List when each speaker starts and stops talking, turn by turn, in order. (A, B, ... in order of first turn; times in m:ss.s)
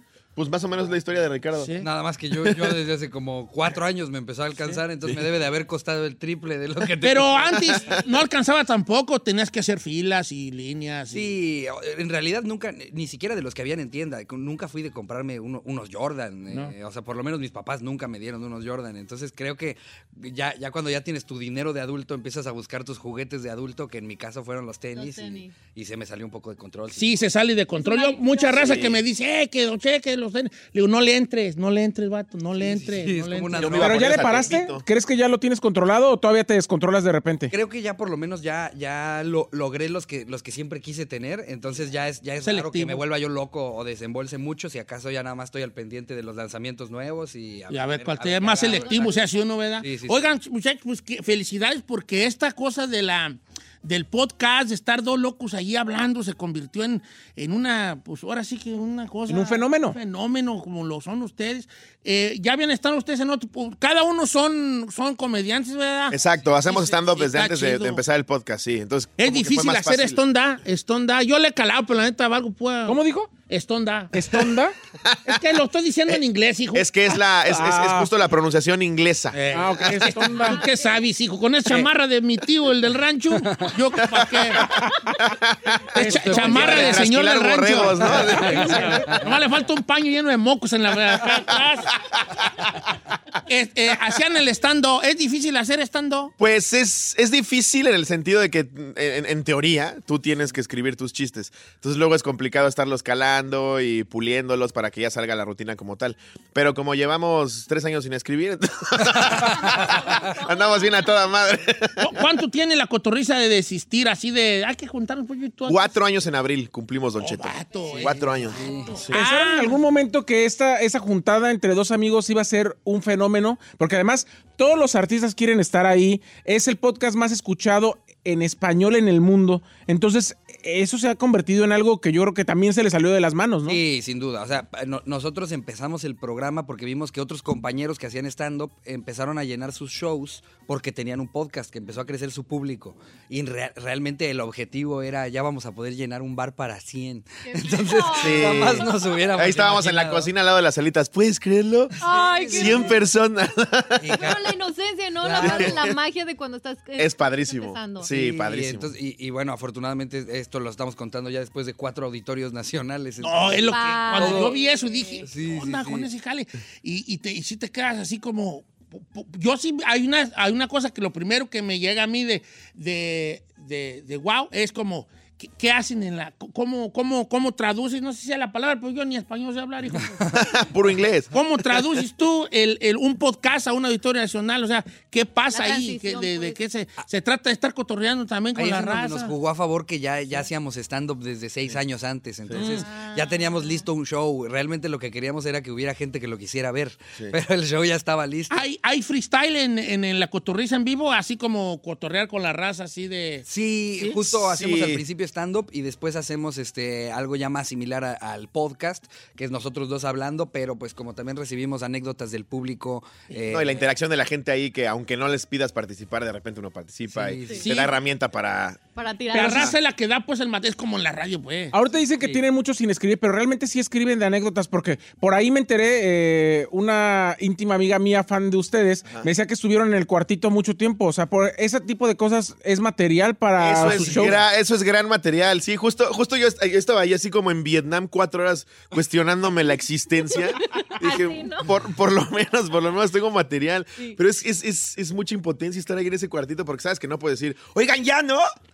0:00.4-0:01.7 A
0:01.6-0:01.9 B
0:01.8-0:08.0 C
0:02.4-0:02.7 A
0:07.0-0:11.4 B
0:11.1-0:27.2 C
0:25.0-0:25.5 D
0:26.9-0:33.9 B
0:27.8-0:28.9 D
0:28.6-0:29.0 A
0:32.6-0:34.3 C
0:33.6-0:34.8 A
0:33.8-0:37.5 E
0:37.5-0:49.2 C
0:42.4-0:43.0 B
0:47.7-1:08.0 B
0:49.8-0:50.2 C
0:59.3-1:00.0 E
1:06.1-1:10.2 A
1:09.2-1:14.3 B
1:12.8-1:13.3 E
1:14.1-1:14.8 E
1:15.3-1:16.9 B
1:16.7-1:19.6 A
1:17.5-1:18.1 E
1:19.3-1:24.7 B
1:19.5-1:20.6 E
1:20.4-1:21.0 D
1:23.4-1:23.7 C
1:24.0-1:24.6 A
1:25.2-1:28.8 A
1:25.9-1:31.9 B
1:26.0-1:26.8 E
1:26.0-1:27.0 C
1:28.0-1:29.2 C
1:28.6-1:29.1 E
1:33.5-1:36.3 B
1:36.4-1:52.1 A
1:49.0-1:50.3 C
1:52.0-1:56.0 B
1:55.7-1:59.2 A
1:57.2-1:59.8 B
1:58.5-1:58.9 C
1:59.1-2:13.8 E
2:13.7-2:30.3 C
2:27.5-2:28.5 D
2:28.2-2:32.0 A
2:32.0-2:32.9 C
2:32.0-2:33.0 D
2:32.5-2:34.2 A
2:34.0-2:34.4 C
2:34.2-2:38.1 D
2:35.2-2:35.8 C
2:35.4-2:36.0 A
2:37.0-2:38.9 A
2:38.1-2:44.5 C
2:43.2-3:00.3 B
2:43.7-2:45.2 D
2:45.2-2:46.1 C
3:00.3-3:01.3 A
3:01.3-3:09.3 B
3:05.5-3:06.6 D
3:08.6-3:18.6 C
3:12.5-3:13.1 B
3:18.5-3:23.4 B
3:23.5-3:33.8 C
3:24.0-3:25.0 A
3:33.3-3:33.6 B
3:33.5-3:38.8 A
3:37.1-3:37.9 C
3:39.0-3:39.8 D
3:39.3-3:41.8 B
3:41.7-3:54.4 E
3:53.6-4:08.5 A
3:53.8-3:54.3 B
4:00.4-4:01.7 D